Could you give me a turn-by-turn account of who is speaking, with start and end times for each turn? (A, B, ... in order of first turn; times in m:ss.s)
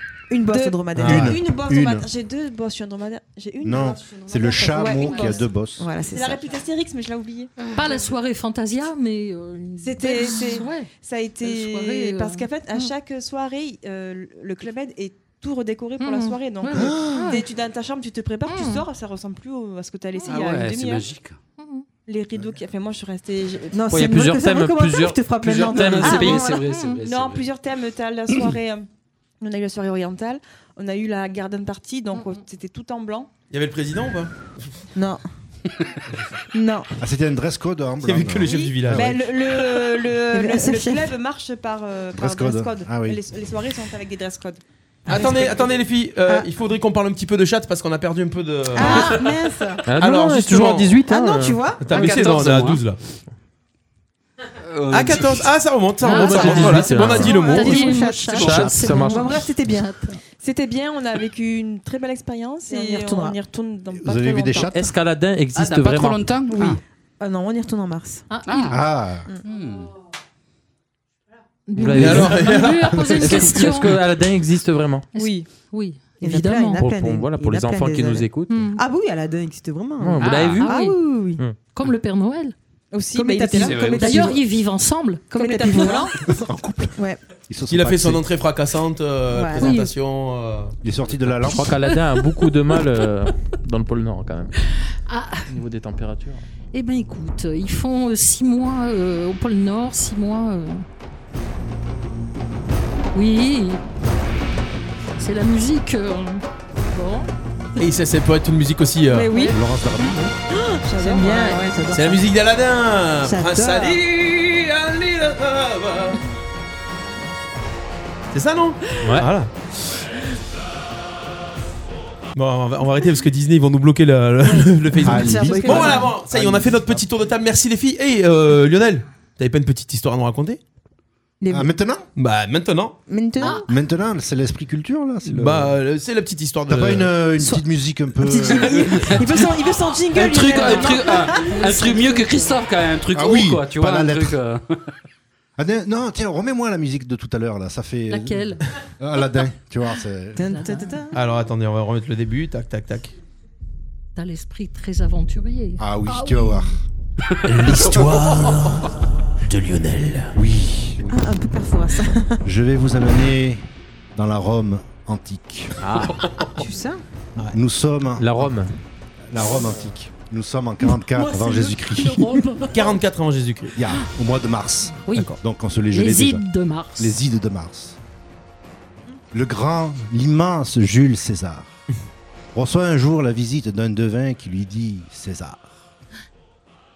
0:00.3-0:01.4 A
0:00.5-0:07.5 B
0:01.0-0:01.3 C
0:01.0-0:02.1 D
0:03.6-0:05.9 D
0:05.8-0:06.4 A
0:07.7-0:10.9 E
0:09.8-0:21.1 B
0:11.4-0:12.9 E
0:16.0-0:17.4 E
0:16.8-0:17.1 D
0:18.5-0:18.8 E
0:20.3-0:21.4 F
0:21.6-0:21.9 E
0:22.1-0:23.9 B
0:23.7-0:26.6 A
0:23.9-0:26.5 G
0:25.7-0:27.5 F
0:26.7-0:27.0 E
0:27.0-0:28.9 B
0:29.4-0:33.3 B
0:32.2-0:32.4 E
0:33.5-0:34.8 C
0:35.0-0:35.2 A
0:36.5-0:36.9 A
0:37.0-0:39.2 D
0:38.0-0:39.2 C
0:38.4-0:44.6 B
0:40.3-0:41.1 A
0:42.1-0:43.2 D
0:45.1-0:49.3 C
0:45.2-0:45.7 B
0:48.7-0:49.8 A
0:49.8-0:51.7 G
0:50.0-0:51.0 C
0:51.1-0:51.9 A
0:51.8-0:53.0 C
0:51.9-0:52.8 F
0:54.7-0:55.5 F
0:54.9-0:58.0 C
0:56.0-1:00.2 E
0:56.1-0:57.4 G
0:57.2-0:59.9 A
0:58.2-0:58.6 F
0:58.3-0:59.4 G
1:00.4-1:04.9 B
1:02.7-1:03.4 A
1:03.9-1:04.8 D
1:04.7-1:06.3 G
1:05.5-1:06.8 F
1:06.5-1:08.3 A
1:08.3-1:08.8 E
1:08.5-1:08.8 F
1:08.7-1:09.3 D
1:09.4-1:09.9 F
1:11.7-1:14.0 E
1:11.8-1:12.5 G
1:11.9-1:13.6 C
1:13.2-1:15.1 G
1:15.1-1:16.8 E
1:15.2-1:15.5 B
1:16.2-1:21.4 A
1:16.8-1:18.7 G
1:18.5-1:18.8 E
1:20.0-1:20.7 G
1:20.2-1:20.6 F
1:20.6-1:21.0 E
1:21.7-1:22.5 E
1:22.9-1:24.4 B
1:23.1-1:24.4 A
1:23.5-1:24.2 F
1:24.0-1:26.1 E
1:25.4-1:26.1 A
1:25.4-1:26.2 B
1:26.2-1:28.2 D
1:27.7-1:30.8 C
1:29.3-1:29.8 A
1:29.6-1:29.9 E
1:30.8-1:31.8 D
1:31.4-1:34.5 G
1:31.9-1:32.5 E
1:35.1-1:35.5 E
1:35.5-1:36.4 G
1:36.7-1:40.8 E
1:43.1-1:43.8 E
1:45.2-1:47.3 E
1:47.8-1:49.4 C
1:49.1-1:49.6 B
1:49.4-1:50.3 D
1:50.5-1:51.6 B
1:51.0-1:52.3 A
1:51.9-1:56.2 C
1:53.2-1:54.0 A
1:58.3-2:00.0 C
1:59.0-1:59.3 G
2:02.4-2:10.6 C
2:05.0-2:07.0 D
2:05.1-2:06.2 A
2:05.5-2:05.9 B
2:11.4-2:11.7 A
2:11.5-2:12.0 D
2:12.2-2:13.0 C
2:13.1-2:13.7 A
2:13.4-2:13.7 E
2:13.7-2:15.8 D
2:15.3-2:17.2 C
2:16.7-2:19.4 D
2:17.4-2:22.4 A
2:20.1-2:24.8 F
2:20.5-2:22.3 E
2:23.1-2:24.4 D
2:25.6-2:30.6 D
2:28.1-2:28.6 E
2:30.4-2:31.2 A
2:30.4-2:30.9 E
2:31.1-2:33.2 C
2:34.2-2:36.7 E
2:35.8-2:36.8 D
2:37.5-2:38.8 C
2:39.4-2:40.4 C
2:40.4-2:41.1 D
2:41.1-2:42.4 A
2:42.4-2:43.6 D
2:44.2-2:46.1 D
2:45.8-2:46.3 G
2:46.6-2:47.0 A
2:47.4-2:48.6 D
2:48.2-2:48.7 G
2:49.2-2:52.5 D
2:50.9-2:53.0 E
2:52.7-2:53.8 C
2:53.8-2:56.4 D
2:55.0-2:55.3 E
2:55.9-2:57.2 E
2:57.0-2:58.0 D
2:59.3-3:01.7 D
3:02.5-3:05.7 D